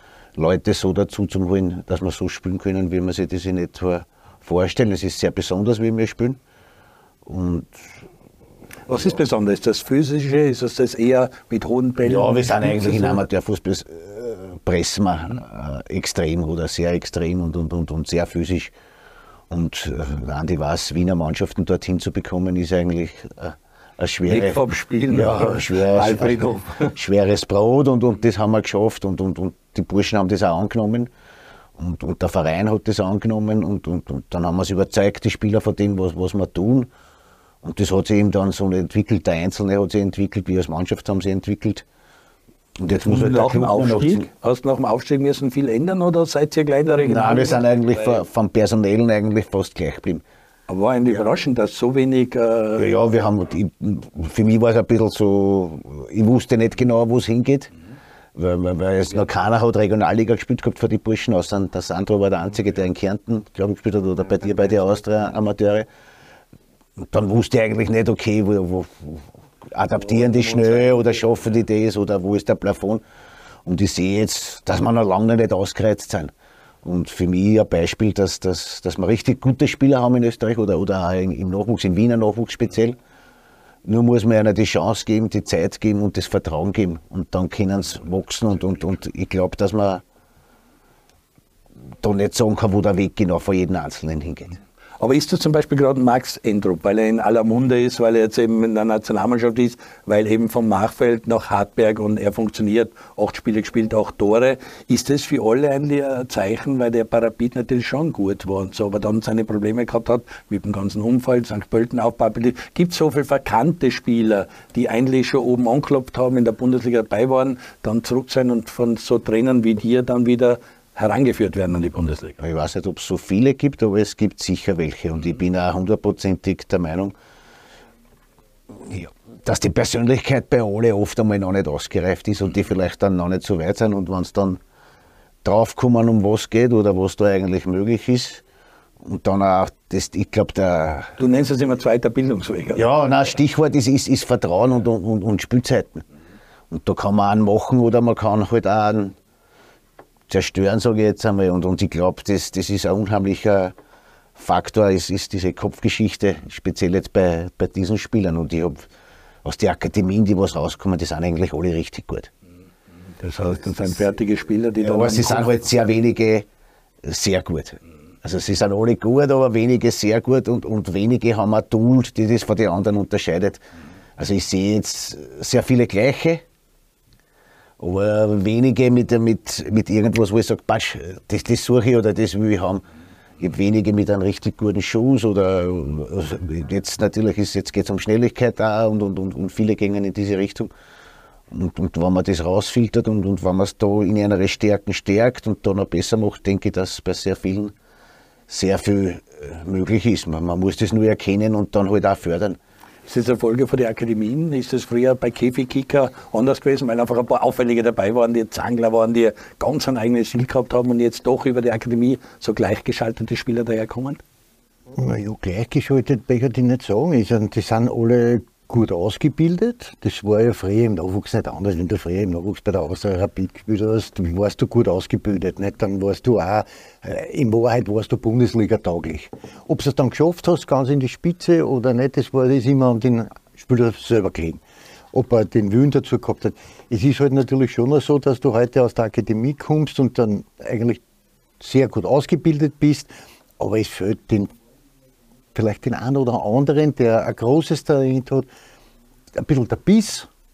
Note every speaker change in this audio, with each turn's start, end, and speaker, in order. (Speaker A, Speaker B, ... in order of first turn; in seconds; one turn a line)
Speaker A: 0.4-6.4
Speaker A: 7.2-7.8
Speaker B: 8.9-13.2
Speaker A: 12.0-18.7
Speaker A: 19.5-31.1
Speaker B: 24.3-26.9
Speaker A: 31.8-36.9
Speaker A: 37.6-41.8
Speaker A: 42.8-44.3
Speaker B: 43.0-48.2
Speaker A: 47.0-50.2
Speaker B: 50.7-52.9
Speaker A: 52.8-57.7
Speaker A: 58.3-65.9
Speaker A: 67.0-73.0
Speaker B: 70.0-71.1
Speaker A: 73.6-76.3
Speaker A: 76.8-83.0
Speaker A: 83.8-90.0
Speaker A: 92.0-94.6
Speaker B: 95.0-122.4
Speaker A: 122.4-127.1
Speaker A: 128.7-134.6
Speaker A: 135.4-138.4
Speaker A: 139.0-141.2
Speaker B: 141.2-142.9
Speaker A: 142.7-146.0
Speaker A: 146.7-149.2
Speaker A: 150.3-153.7
Speaker A: 154.3-158.9
Speaker A: 159.4-162.3
Speaker B: 163.2-165.7
Speaker A: 164.8-166.4
Speaker A: 167.0-173.6
Speaker A: 174.2-176.4
Speaker A: 177.8-182.8
Speaker A: 183.4-190.7
Speaker A: 191.5-197.7
Speaker A: 198.5-202.6
Speaker B: 203.1-214.2
Speaker C: 214.9-234.6
Speaker C: 235.1-241.0
Speaker C: 241.6-244.5
Speaker C: 245.5-248.4
Speaker C: 249.3-250.3